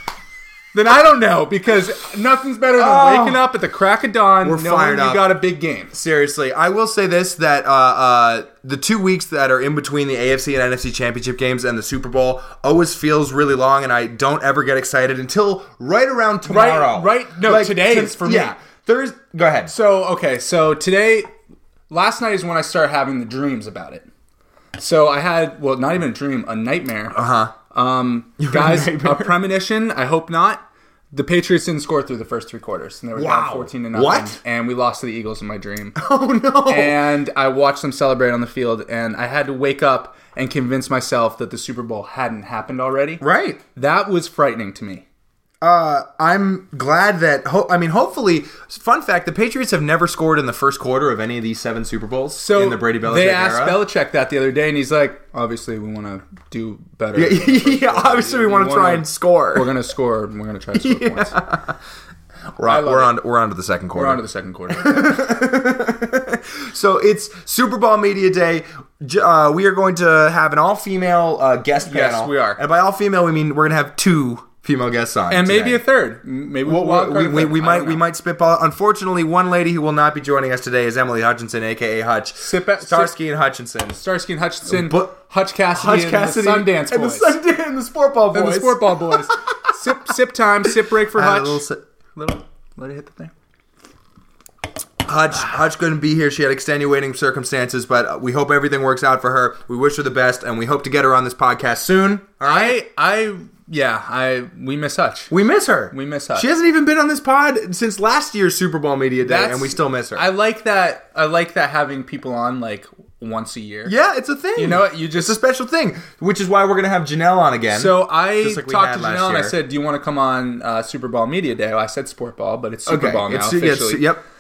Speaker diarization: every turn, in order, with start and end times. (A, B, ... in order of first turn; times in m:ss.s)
0:00.7-0:05.9 A
0:02.8-0:03.5 B
0:04.4-0:05.4 B
0:05.9-0:19.7 B
0:16.4-0:18.6 A
0:19.7-0:21.3 A
0:21.9-0:24.1 A
0:24.8-0:27.2 A
0:27.1-0:27.5 B
0:27.7-0:36.0 A
0:28.4-0:29.3 B
0:33.2-0:34.4 B
0:36.0-0:37.0 B
0:36.7-0:43.2 A
0:43.2-0:43.6 B
0:43.8-0:45.0 A
0:45.6-0:53.8 B
0:52.4-1:01.4 A
0:57.2-0:59.7 B
1:00.8-1:01.8 B
1:02.6-1:15.8 B
1:02.6-1:03.2 A
1:03.9-1:05.2 A
1:11.8-1:12.6 A
1:15.3-1:18.0 A
1:16.6-1:24.0 B
1:22.4-1:23.2 A
1:24.0-1:27.4 A
1:24.7-1:25.2 B
1:25.7-1:29.7 B
1:28.3-1:31.6 A
1:31.1-1:31.8 B
1:32.2-1:33.3 A
1:35.0-1:42.8 B
1:42.4-1:45.3 A
1:45.3-1:50.3 B
1:45.9-1:46.5 A
1:49.2-1:54.0 A
1:53.8-1:59.6 B
1:54.6-1:55.4 A
1:57.7-2:04.1 A
2:02.9-2:04.2 B